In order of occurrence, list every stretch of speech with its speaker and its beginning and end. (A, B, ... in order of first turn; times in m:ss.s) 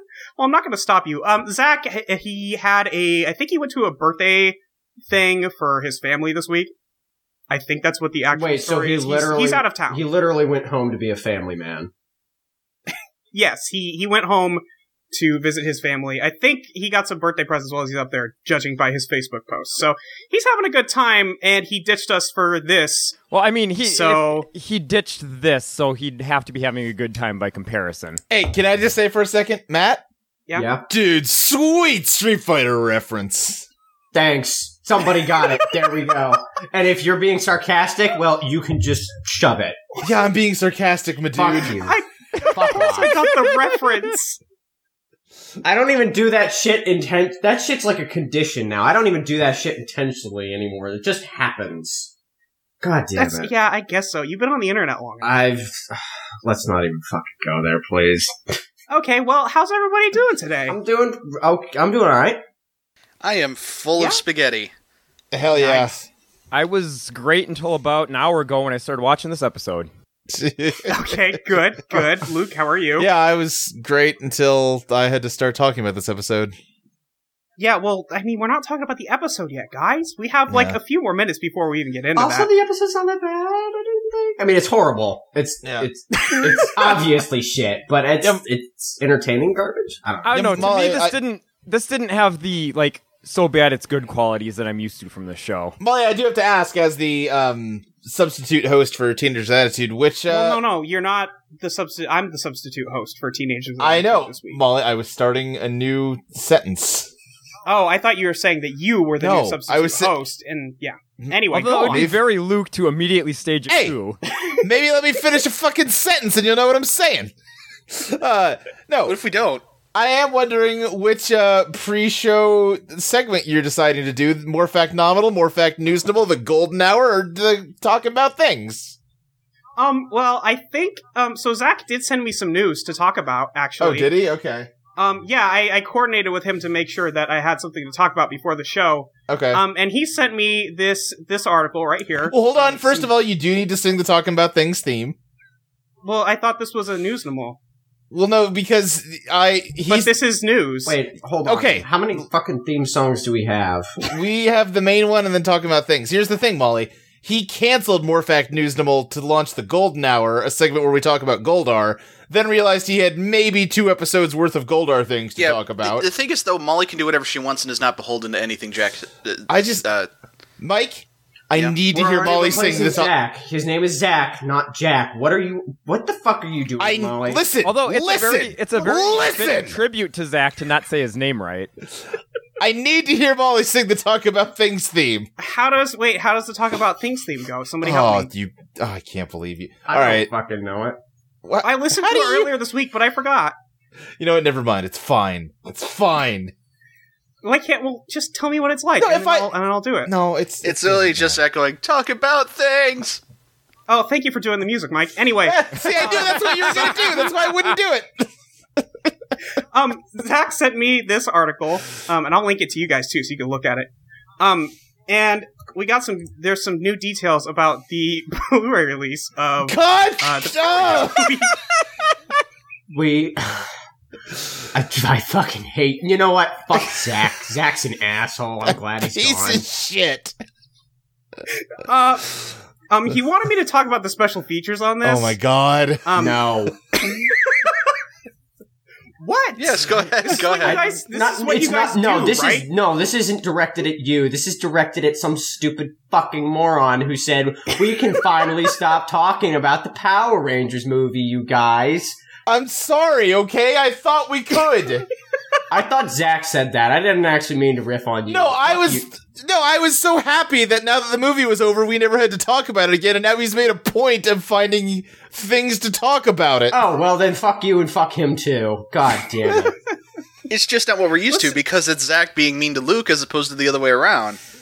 0:00.4-0:06.7 A
0:07.5-0:10.0 A
0:08.3-0:11.9 B
0:13.3-0:23.2 A
0:23.3-0:28.2 C
0:23.8-0:24.5 A
0:28.3-0:30.0 D
0:30.5-0:30.8 B
0:30.9-0:33.7 D
0:34.1-0:40.0 B
0:40.0-0:41.8 D
0:41.3-0:43.2 B
0:41.8-0:44.4 A
0:42.4-0:42.7 C
0:45.6-0:52.1 B
0:52.8-0:53.5 B
0:53.2-0:55.4 A
0:55.2-0:58.6 B
0:58.9-1:00.8 A
1:00.7-1:02.4 B
1:03.2-1:04.7 E
1:03.9-1:04.2 A
1:05.3-1:06.0 D
1:05.5-1:05.9 A
1:06.5-1:09.9 C
1:10.3-1:11.2 D
1:10.8-1:13.1 A
1:13.0-1:16.5 D
1:17.6-1:22.5 A
1:20.5-1:20.8 D
1:22.1-1:30.8 B
1:25.6-1:25.9 D
1:26.4-1:27.0 A
1:30.2-1:35.8 C
1:30.3-1:31.2 D
1:35.8-1:40.6 D
1:40.2-1:44.6 A
1:43.8-1:47.1 D
1:47.6-1:52.1 A
1:49.2-1:50.2 D
1:51.2-1:52.2 D
1:51.5-1:54.2 C
1:53.7-1:53.9 D
1:54.6-1:57.3 D
1:57.9-1:59.2 D
1:59.0-1:59.6 E
1:59.9-2:09.0 D
2:09.8-2:14.1 A
2:13.8-2:14.7 D
2:14.9-2:23.1 A
2:19.3-2:19.6 D
2:22.3-2:25.2 D
2:26.0-2:27.6 A
2:28.1-2:30.1 D
2:29.9-2:31.0 A
2:30.8-2:34.0 B
2:31.4-2:31.9 D
2:34.1-2:46.1 D
2:45.4-2:50.1 E
2:49.5-2:49.8 D
2:50.6-2:53.1 D
2:51.9-2:57.4 B
2:56.8-2:59.8 D
2:57.6-3:01.7 C
3:02.6-3:05.3 D
3:05.4-3:08.3 A
3:07.8-3:10.3 D
3:09.9-3:11.0 B
3:11.4-3:12.5 D
3:11.6-3:13.6 A
3:14.2-3:16.5 D
3:17.4-3:20.1 A
3:19.0-3:19.5 D
3:20.0-3:21.4 D
3:20.6-3:23.2 E
3:23.9-3:27.2 A
3:25.4-3:29.1 D
3:29.7-3:41.6 A
3:39.6-3:41.4 D
3:42.9-3:43.7 B
3:44.7-3:49.6 B
3:48.6-3:50.4 D
3:51.8-3:55.4 A
3:55.0-3:56.3 D
3:56.0-3:56.4 A
3:56.1-3:56.8 B
3:59.2-4:02.7 A
3:59.6-4:00.9 E
4:00.6-4:12.2 B
4:12.4-4:15.1 D
4:15.7-4:19.0 B
4:18.3-4:26.8 D
4:26.7-4:29.8 B
4:30.5-4:34.4 E